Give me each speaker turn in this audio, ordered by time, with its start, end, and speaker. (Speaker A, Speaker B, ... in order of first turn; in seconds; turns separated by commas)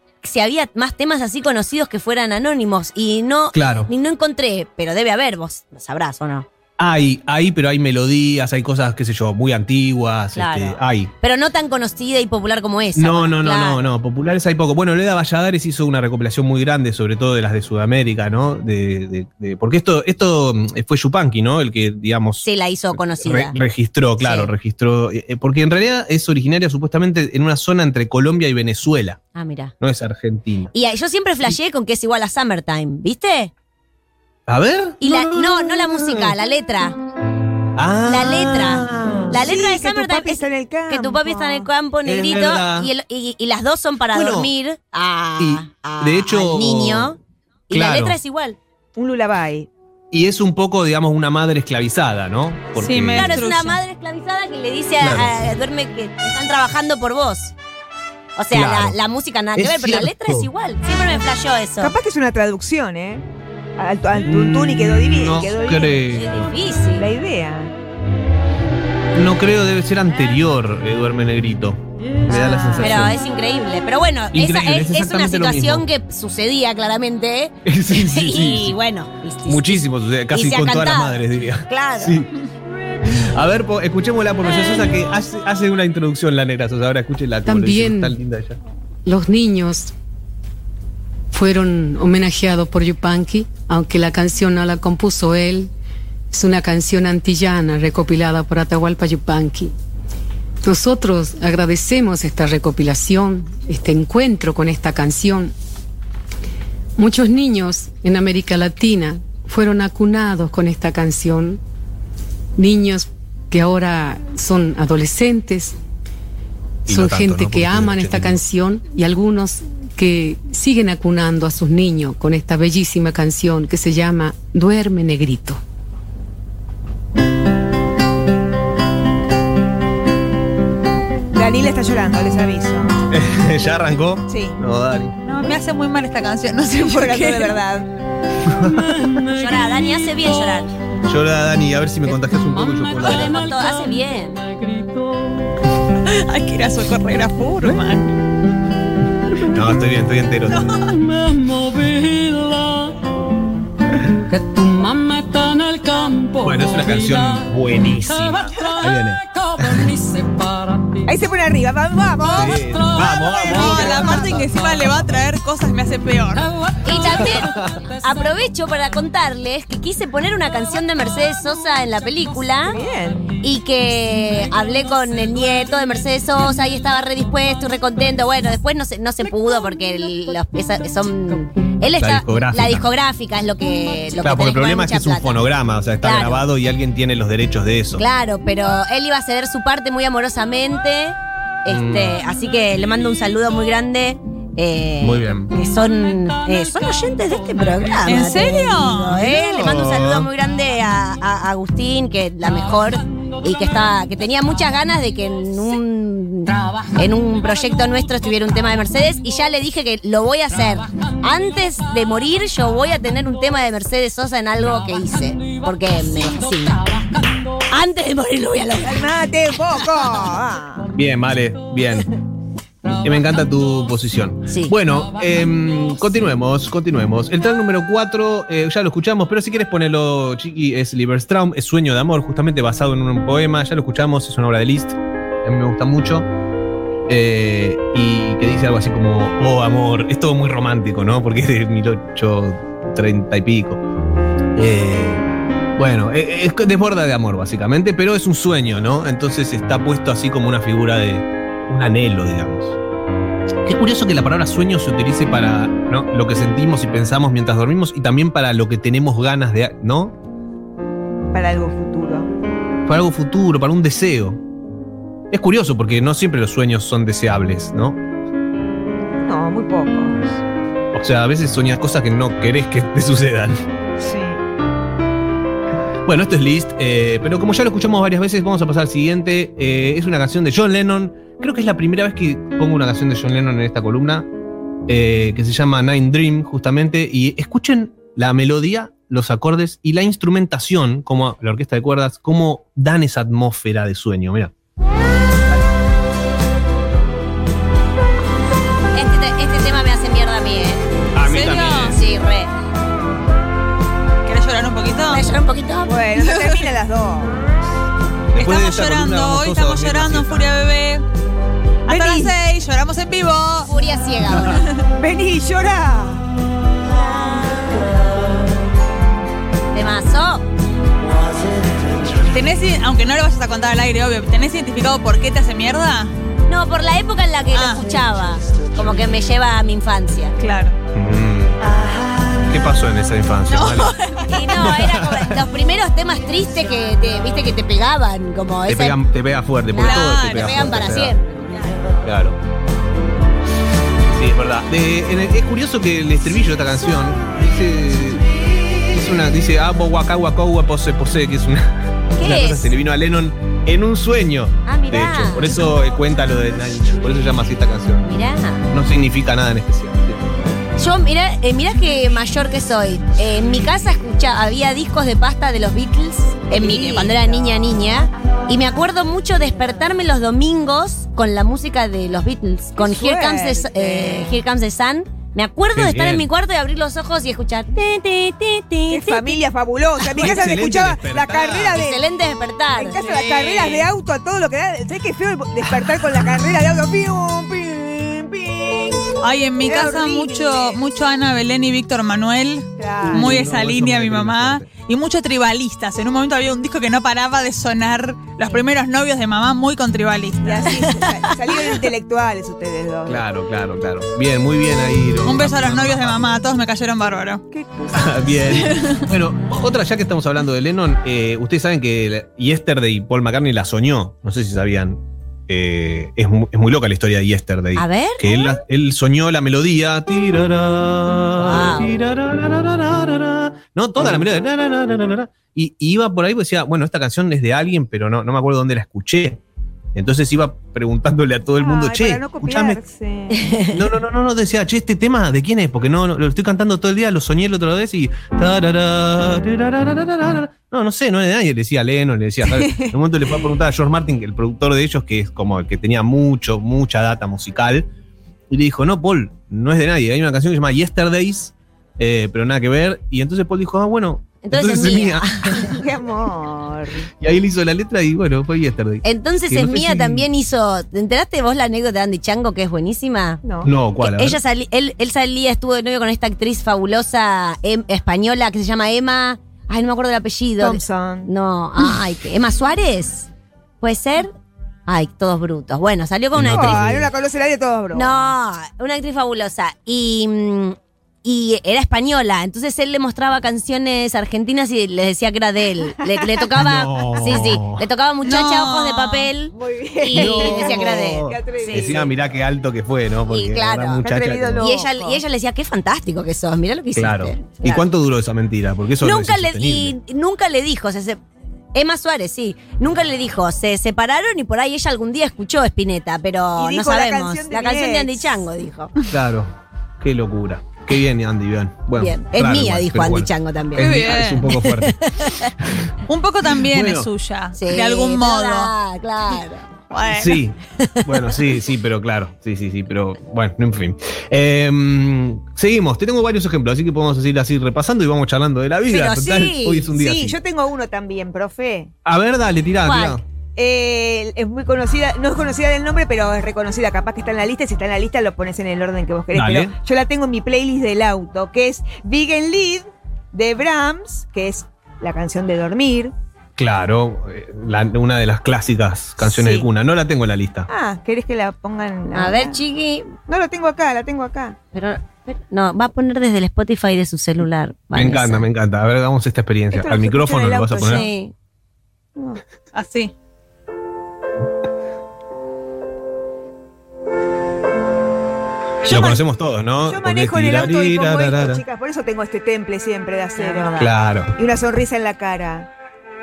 Speaker A: 0.2-6.5, Speaker B: 3.5-3.9, Speaker B: 6.8-11.1, Speaker A: 10.3-13.9, Speaker B: 13.0-29.2, Speaker A: 22.4-23.6, Speaker A: 24.2-24.5, Speaker A: 29.4-29.7, Speaker B: 29.8-30.7, Speaker A: 30.7-33.5, Speaker B: 34.5-36.4, Speaker A: 35.0-37.0, Speaker B: 37.8-39.4, Speaker A: 38.1-47.2, Speaker C: 39.3-41.7, Speaker B: 42.0-42.9, Speaker B: 44.1-44.5, Speaker B: 45.4-47.2, Speaker A: 47.7-48.6, Speaker B: 47.7-48.2, Speaker C: 49.0-49.7, Speaker B: 50.1-53.4, Speaker D: 52.8-53.8, Speaker A: 53.1-57.5, Speaker B: 55.0-55.4, Speaker A: 58.4-62.0, Speaker B: 58.5-59.0, Speaker B: 59.5-60.5, Speaker C: 61.8-63.2, Speaker C: 63.8-66.0, Speaker B: 64.2-66.5, Speaker A: 66.0-67.1, Speaker C: 67.0-67.8, Speaker B: 69.1-73.2, Speaker A: 72.8-82.3, Speaker B: 74.3-75.9, Speaker B: 77.7-78.8, Speaker B: 79.5-82.3, Speaker B: 83.0-88.6, Speaker E: 87.5-88.2, Speaker E: 89.0-89.9, Speaker E: 91.3-95.7, Speaker E: 96.3-99.7, Speaker E: 100.6-105.5, Speaker E: 107.0-111.6, Speaker E: 112.6-115.8, Speaker E: 116.9-125.6, Speaker B: 116.9-118.4, Speaker C: 131.3-133.0, Speaker B: 133.1-135.2, Speaker C: 134.3-134.6, Speaker D: 135.2-137.6, Speaker C: 136.7-137.9, Speaker B: 138.4-139.2, Speaker A: 139.3-140.7, Speaker B: 141.1-143.5, Speaker A: 143.0-144.4, Speaker E: 144.6-145.2, Speaker D: 146.1-148.1, Speaker B: 149.4-150.9, Speaker D: 150.5-150.9, Speaker E: 151.0-152.9, Speaker E: 154.3-156.4, Speaker B: 156.4-160.0, Speaker E: 160.1-160.4, Speaker C: 161.1-164.5, Speaker B: 162.3-164.4, Speaker D: 163.3-166.5, Speaker A: 166.8-172.8, Speaker B: 166.9-167.8, Speaker C: 172.7-173.3, Speaker A: 173.4-185.4, Speaker B: 182.0-182.9, Speaker B: 184.2-188.0, Speaker A: 186.0-186.4, Speaker A: 188.0-216.8, Speaker B: 191.7-192.2, Speaker B: 195.0-195.5, Speaker D: 198.1-199.2, Speaker B: 199.1-200.3, Speaker A: 217.7-219.2, Speaker C: 218.8-220.9, Speaker B: 220.9-222.1, Speaker B: 223.0-236.3, Speaker A: 224.5-224.8, Speaker B: 237.1-243.8, Speaker B: 244.6-245.2, Speaker B: 245.8-252.8, Speaker B: 253.7-260.2, Speaker C: 261.3-262.3, Speaker B: 262.9-264.4, Speaker B: 265.3-268.0, Speaker C: 269.2-270.4, Speaker B: 270.9-273.6, Speaker C: 274.0-274.4, Speaker B: 276.1-284.3, Speaker B: 284.9-294.5, Speaker A: 298.9-300.9, Speaker B: 301.1-302.0, Speaker D: 301.2-302.0, Speaker A: 301.8-302.5, Speaker D: 304.2-305.3, Speaker A: 305.1-306.0, Speaker C: 305.9-307.4, Speaker D: 306.2-306.7, Speaker B: 308.3-310.5, Speaker D: 308.4-311.0, Speaker D: 311.9-313.7, Speaker C: 311.9-312.3, Speaker A: 313.6-314.7, Speaker C: 315.0-316.2, Speaker A: 316.9-317.8, Speaker A: 319.7-320.4, Speaker D: 322.3-326.1, Speaker A: 326.5-330.4, Speaker D: 327.5-327.9, Speaker D: 330.4-330.8, Speaker B: 330.9-331.6, Speaker B: 332.5-333.9, Speaker D: 333.5-334.4, Speaker A: 334.2-339.0, Speaker B: 334.5-335.4, Speaker B: 338.7-341.2, Speaker A: 339.7-341.6, Speaker D: 339.8-340.7, Speaker B: 342.0-342.4, Speaker B: 344.1-358.1, Speaker A: 352.2-352.7, Speaker A: 354.6-355.6, Speaker A: 358.0-358.7, Speaker B: 358.7-360.4, Speaker A: 360.8-379.4, Speaker C: 366.5-367.5, Speaker C: 372.8-374.4, Speaker B: 375.8-376.3, Speaker C: 378.9-382.0, Speaker B: 380.2-381.8, Speaker A: 381.7-383.0, Speaker C: 382.8-390.8, Speaker D: 382.9-383.9, Speaker D: 389.2-401.2, Speaker C: 392.8-393.5, Speaker B: 393.1-394.7, Speaker C: 400.4-403.2, Speaker B: 403.1-406.3, Speaker D: 405.2-407.4, Speaker C: 407.5-408.4, Speaker B: 407.9-429.4, Speaker D: 408.6-409.0, Speaker A: 417.8-418.3, Speaker A: 421.4-421.9, Speaker B: 429.9-432.8, Speaker C: 431.6-433.6, Speaker A: 433.3-433.8, Speaker B: 433.7-447.9, Speaker C: 442.5-442.9, Speaker B: 448.5-455.7, Speaker A: 454.4-455.8, Speaker C: 455.7-457.1, Speaker B: 457.2-460.3, Speaker A: 459.0-463.4, Speaker C: 463.4-463.7, Speaker B: 463.6-464.4, Speaker A: 464.0-473.3, Speaker C: 470.6-471.3, Speaker A: 473.8-474.3, Speaker A: 474.9-477.0, Speaker B: 476.3-477.1, Speaker C: 476.5-478.3, Speaker A: 477.9-492.0, Speaker B: 486.6-487.9, Speaker D: 488.2-489.3, Speaker C: 489.5-492.2, Speaker B: 490.1-494.7, Speaker A: 493.3-494.1, Speaker C: 494.0-495.2, Speaker A: 494.6-497.8, Speaker B: 496.9-500.0, Speaker A: 499.0-501.2, Speaker A: 501.7-508.9, Speaker C: 506.6-508.4, Speaker B: 509.1-515.0, Speaker A: 512.0-515.5, Speaker D: 513.8-514.5, Speaker B: 515.6-515.9, Speaker D: 516.1-518.7, Speaker B: 516.6-517.1, Speaker A: 517.6-519.7, Speaker D: 519.9-520.4, Speaker B: 520.1-530.4, Speaker A: 520.8-521.3, Speaker C: 528.9-531.9, Speaker B: 532.0-533.2, Speaker A: 532.8-533.2, Speaker C: 533.6-546.1, Speaker B: 539.3-539.8, Speaker B: 546.6-550.7, Speaker C: 549.2-549.7, Speaker C: 550.7-552.6, Speaker A: 552.1-553.1, Speaker C: 553.3-554.6, Speaker A: 554.7-558.5, Speaker B: 557.9-561.1, Speaker C: 559.7-561.1, Speaker A: 560.8-561.3, Speaker C: 562.2-562.4, Speaker D: 562.7-563.1, Speaker C: 568.8-569.2, Speaker B: 568.9-571.6, Speaker C: 569.9-575.7, Speaker A: 573.4-573.9, Speaker B: 573.8-574.3